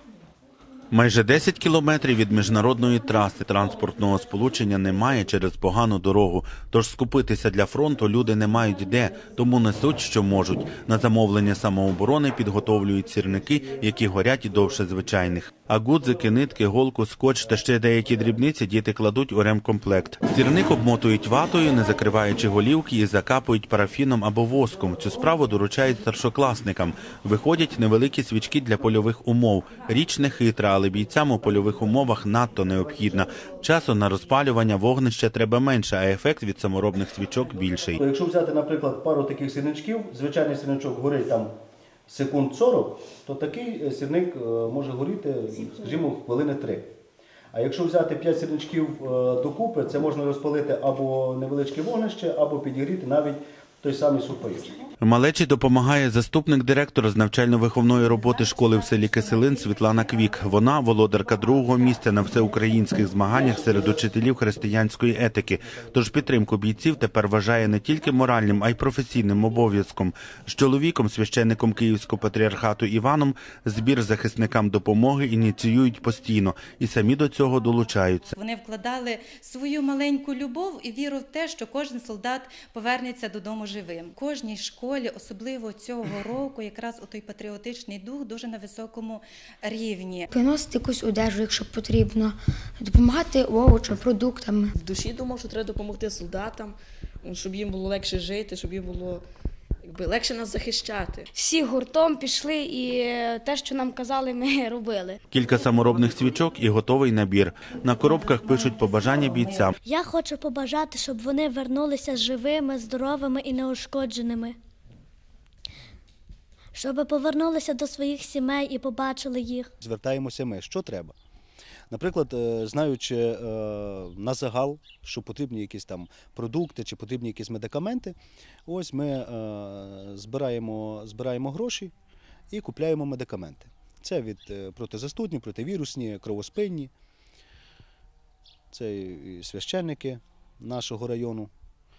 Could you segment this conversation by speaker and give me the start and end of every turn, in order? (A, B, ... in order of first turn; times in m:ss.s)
0:00.9-0:38.0 A
0:38.0-0:41.5 B
0:42.1-0:46.8 B
0:47.5-0:54.7 B
0:55.0-1:18.3 A
1:18.4-1:30.3 C
1:30.3-1:34.7 D
1:34.7-1:39.2 E
1:39.8-1:41.3 E
1:41.3-1:45.2 F
1:45.3-1:49.7 A
1:49.8-1:54.6 G
1:56.7-1:59.7 G
1:59.8-2:01.1 B
2:01.9-2:11.9 B
2:12.5-2:16.9 B
2:18.7-2:21.5 B